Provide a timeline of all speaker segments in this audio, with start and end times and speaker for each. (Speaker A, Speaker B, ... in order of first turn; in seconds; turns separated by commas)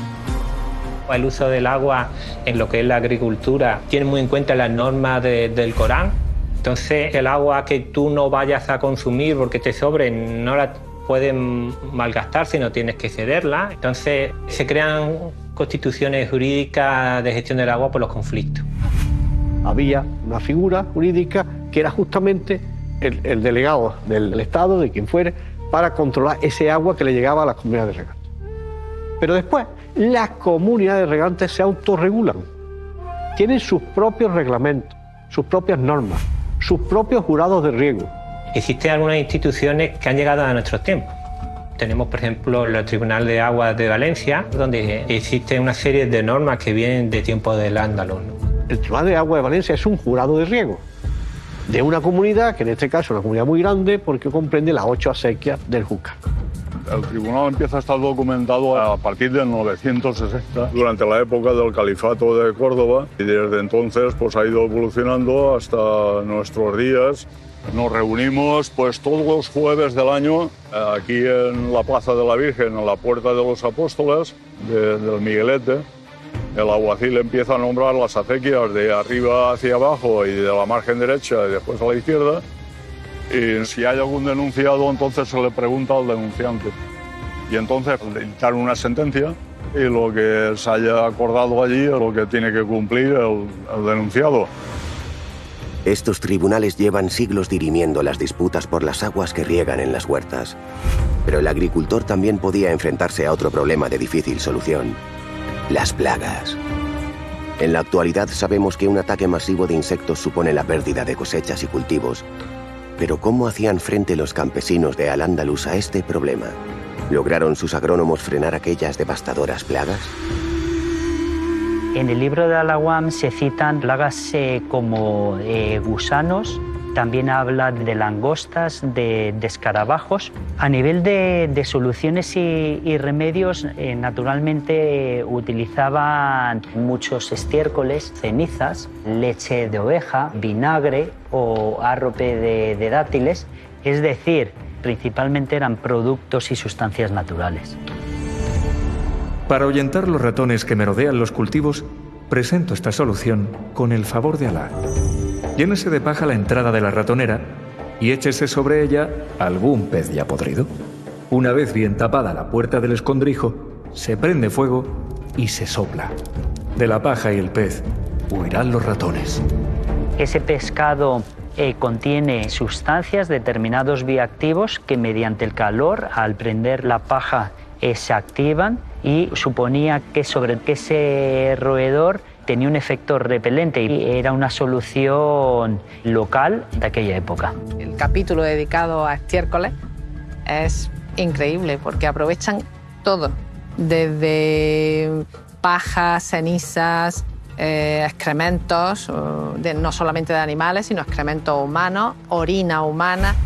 Speaker A: 1.1-18.6, Speaker B: 19.6-28.2, Speaker B: 29.2-32.4, Speaker B: 33.4-38.1, Speaker A: 38.5-41.1, Speaker A: 41.8-48.3, Speaker B: 48.7-50.8, Speaker B: 51.7-56.2, Speaker C: 56.9-75.8, Speaker C: 76.5-82.4, Speaker C: 83.3-86.7, Speaker C: 87.5-94.5, Speaker D: 95.8-100.6, Speaker D: 101.2-105.0, Speaker D: 105.7-106.6, Speaker D: 107.6-112.2, Speaker D: 113.0-116.6, Speaker D: 117.1-120.1, Speaker E: 121.9-147.8, Speaker F: 149.5-154.7, Speaker F: 155.6-160.7, Speaker F: 161.3-166.1, Speaker F: 166.8-169.4, Speaker E: 170.2-187.5, Speaker G: 187.8-189.7, Speaker G: 190.4-203.3